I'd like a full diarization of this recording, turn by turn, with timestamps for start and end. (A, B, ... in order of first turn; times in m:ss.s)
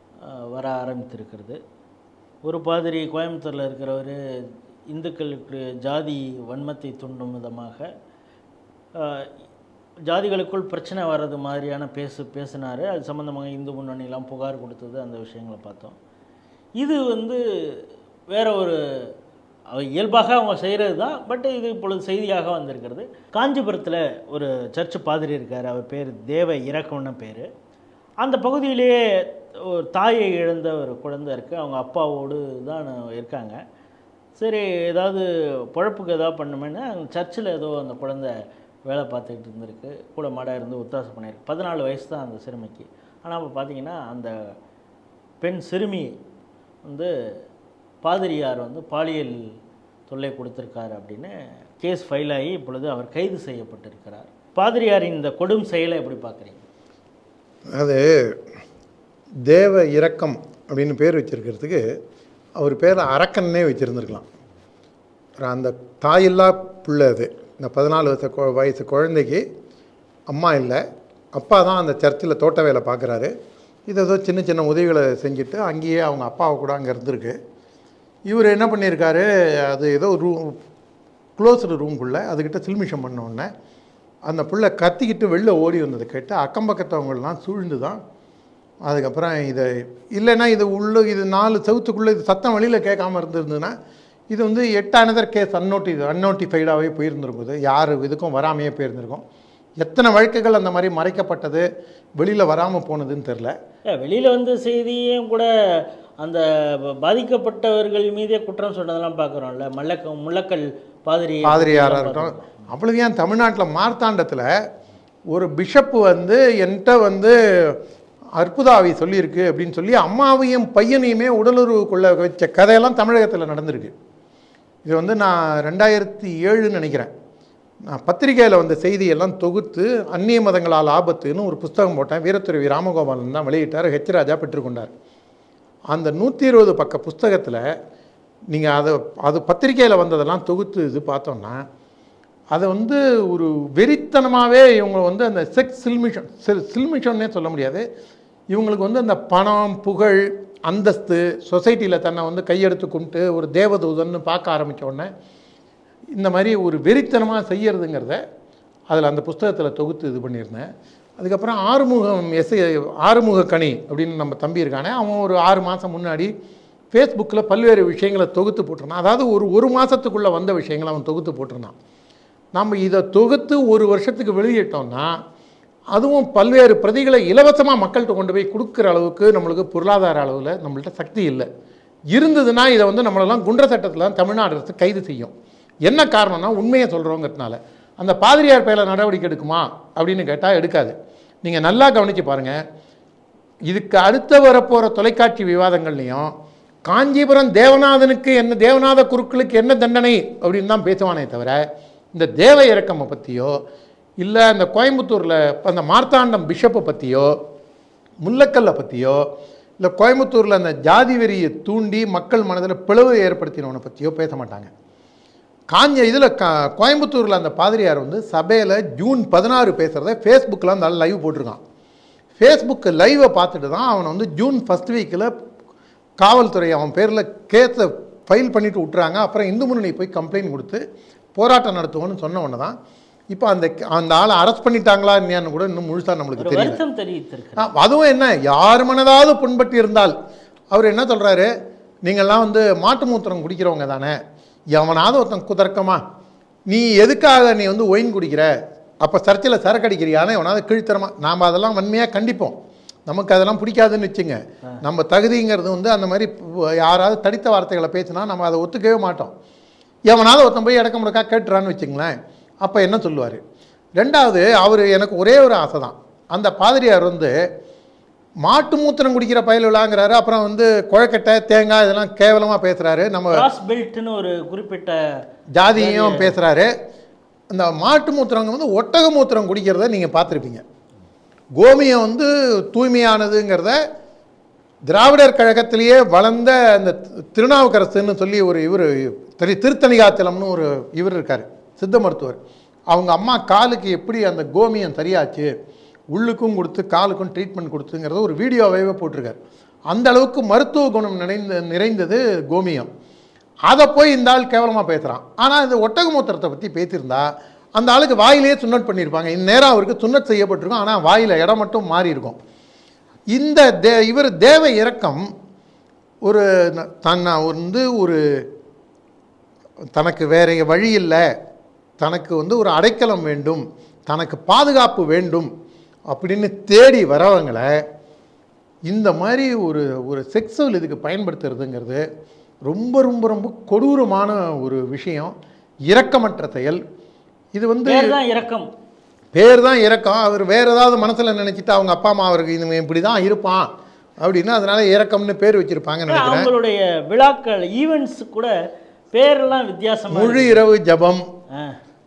0:00.3-0:01.6 A
0:02.4-0:04.2 A
0:04.9-0:07.9 A
0:09.0-0:09.3 A
0:10.1-0:16.0 A
0:16.8-0:17.8 A
0:18.3-0:18.8 A
0:19.7-0:27.5 A
0:28.2-0:33.6 A
0:34.4-0:38.3 A
0:38.9-0:44.3 A
0:45.4-0:46.1 A
0:46.8-0:47.1 A
0:48.0-0:49.4 A
0:50.1-0:56.6 A
0:57.7-0:58.4 B
0:59.4-1:01.8 B
1:02.6-1:04.2 B
1:05.4-1:09.4 B
1:10.3-1:10.8 B
1:11.3-1:13.3 B
1:13.9-1:17.3 B
1:18.3-1:20.6 B
1:21.4-1:23.5 B
1:24.3-1:28.0 B
1:28.8-1:33.7 B
1:34.3-1:39.2 B
1:39.8-1:41.6 B
1:42.2-1:43.5 B
1:43.9-1:52.5 A
1:51.4-1:54.5 B
1:55.3-1:57.8 B
1:58.4-2:03.9 B
2:04.8-2:07.1 B
2:07.9-2:14.9 B
2:15.9-2:17.6 B
2:18.5-2:21.6 B
2:22.5-2:27.8 B
2:28.5-2:35.1 B
2:36.2-2:38.2 B
2:38.9-2:40.7 B
2:41.2-2:46.3 B
2:46.9-2:51.7 B
2:52.5-2:55.1 B
2:55.9-3:01.5 B
3:02.1-3:05.3 B
3:05.8-3:12.6 B
3:13.7-3:16.3 B
3:16.8-3:21.6 B
3:22.1-3:23.5 B
3:24.2-3:27.3 B
3:28.2-3:29.2 B
3:29.8-3:34.7 B
3:35.7-3:41.6 B
3:42.4-3:45.3 B
3:46.2-3:50.8 B
3:51.4-3:52.7 B
3:53.3-3:56.8 B
3:56.4-3:57.7 A
3:57.6-4:00.1 B
4:00.7-4:01.5 B
4:02.0-4:04.2 B
4:04.7-4:06.0 B
4:06.7-4:08.5 B
4:09.0-4:12.6 B
4:13.1-4:19.3 B
4:20.1-4:23.4 B
4:24.0-4:27.3 B
4:28.4-4:33.5 B
4:33.3-4:35.0 A
4:35.6-4:36.7 B
4:35.7-4:36.4 A
4:37.5-4:40.6 B
4:41.6-4:43.8 B
4:44.9-4:52.4 B
4:52.9-4:55.5 B
4:56.1-4:59.4 B
4:59.9-5:02.9 B
5:03.7-5:12.4 B
5:13.3-5:15.2 B
5:16.2-5:18.2 B
5:19.9-5:21.2 B
5:22.0-5:25.5 B
5:26.1-5:27.7 B
5:28.9-5:32.0 B
5:32.6-5:35.3 B
5:35.9-5:36.8 B
5:37.5-5:38.1 B
5:37.8-5:38.6 A
5:39.3-5:43.7 B
5:44.2-5:46.5 B
5:46.1-5:48.5 A
5:49.1-5:50.6 A
5:50.1-5:51.2 B